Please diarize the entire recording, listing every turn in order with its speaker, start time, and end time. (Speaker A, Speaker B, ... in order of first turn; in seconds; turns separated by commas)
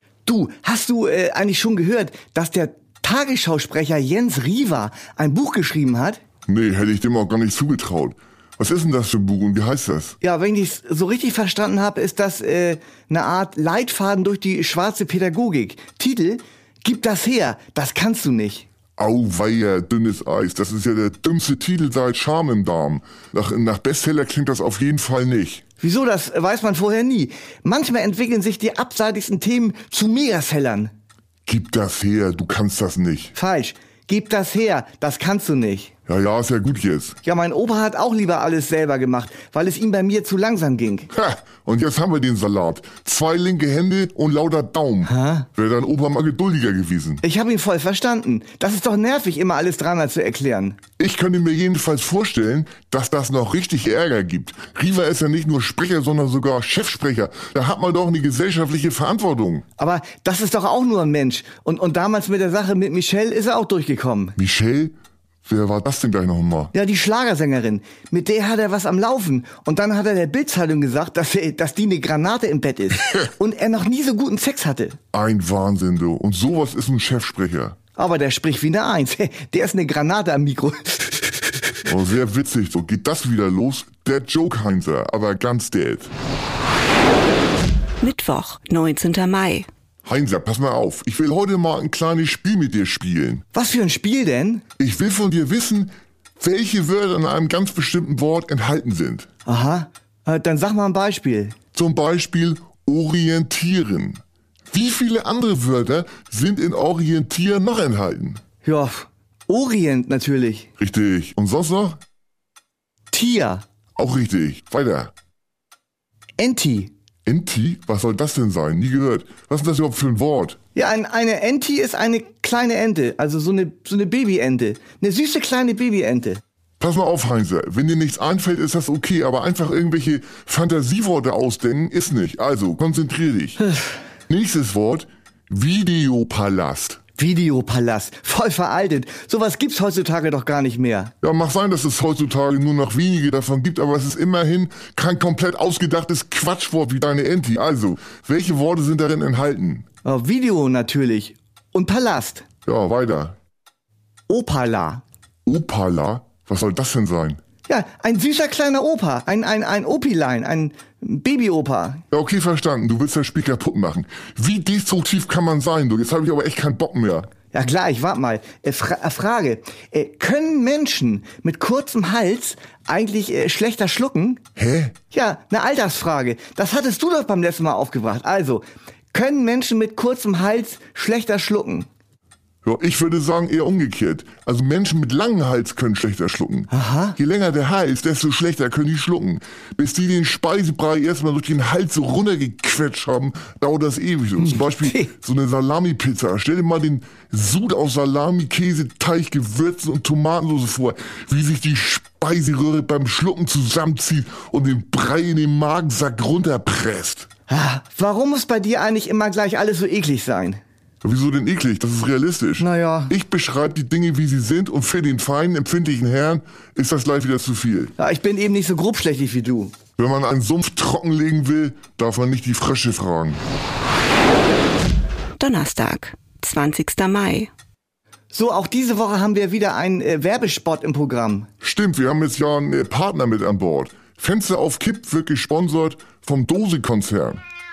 Speaker A: 0.2-6.2, Speaker B: 6.5-10.2, Speaker A: 10.2-18.6, Speaker B: 19.0-25.6, Speaker A: 25.8-30.9, Speaker B: 31.5-33.3, Speaker A: 33.3-35.9, Speaker B: 36.1-37.2, Speaker A: 37.2-41.1, Speaker B: 41.1-47.2, Speaker A: 45.0-45.5, Speaker A: 47.2-50.8, Speaker B: 51.0-59.6, Speaker A: 59.8-64.3, Speaker B: 64.4-64.9, Speaker B: 65.5-66.7, Speaker A: 66.7-75.0, Speaker B: 75.1-77.8, Speaker A: 78.0-81.8, Speaker B: 81.8-86.1, Speaker C: 88.0-89.7, Speaker B: 90.0-93.4, Speaker A: 93.5-94.6, Speaker B: 94.8-99.3, Speaker A: 99.5-101.5, Speaker B: 101.7-104.2, Speaker B: 104.7-108.4, Speaker A: 108.6-110.7, Speaker B: 110.8-112.0, Speaker A: 113.1-113.6, Speaker B: 114.0-115.1, Speaker A: 116.4-116.9, Speaker B: 117.2-120.6, Speaker A: 120.7-126.4, Speaker B: 126.8-133.6, Speaker B: 134.3-137.0, Speaker A: 137.2-141.1, Speaker B: 141.2-149.8, Speaker A: 150.0-152.4, Speaker B: 152.7-153.3, Speaker A: 154.3-155.0, Speaker B: 155.4-157.4, Speaker A: 157.7-162.0, Speaker B: 162.1-167.3, Speaker A: 167.5-174.4, Speaker B: 174.6-174.9, Speaker A: 175.1-181.9, Speaker B: 182.6-207.3, Speaker A: 186.7-187.2, Speaker A: 194.4-195.1, Speaker A: 207.5-210.6, Speaker B: 211.0-217.9, Speaker A: 212.6-213.1, Speaker A: 218.0-219.7, Speaker B: 220.0-223.4, Speaker C: 225.4-227.5, Speaker A: 228.3-231.5, Speaker B: 231.6-237.4